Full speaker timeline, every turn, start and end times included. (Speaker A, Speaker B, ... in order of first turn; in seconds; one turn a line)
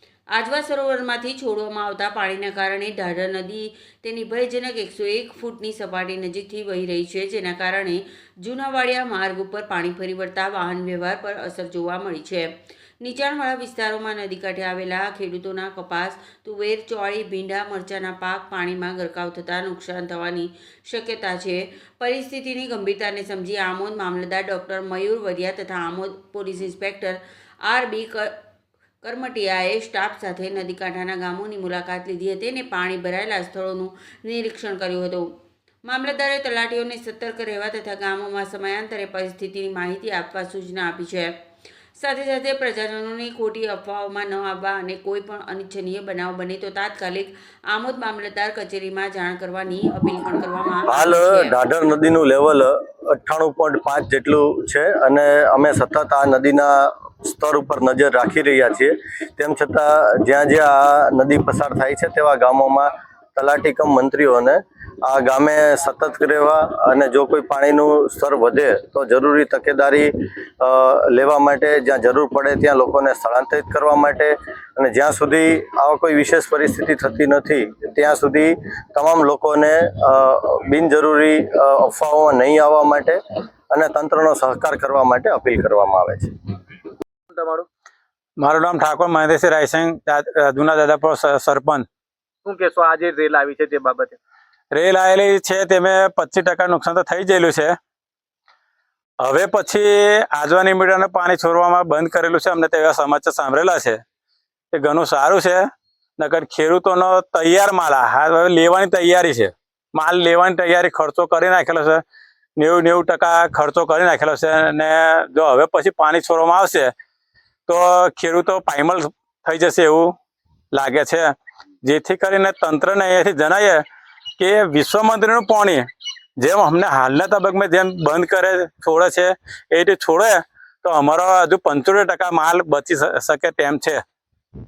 Speaker A: 0.3-28.3
Speaker A: 29.0-35.3
Speaker A: 35.8-41.3
Speaker A: 41.9-51.5
Speaker B: 50.9-86.3
Speaker C: 87.3-87.7
Speaker D: 88.4-91.8
Speaker C: 92.4-94.2
Speaker D: 94.7-97.7
Speaker D: 99.2-104.0
Speaker D: 104.7-105.6
Speaker D: 106.2-112.0
Speaker D: 112.6-116.9
Speaker D: 117.7-120.1
Speaker D: 120.7-121.3
Speaker D: 121.8-123.8
Speaker D: 124.4-125.8
Speaker D: 126.4-134.0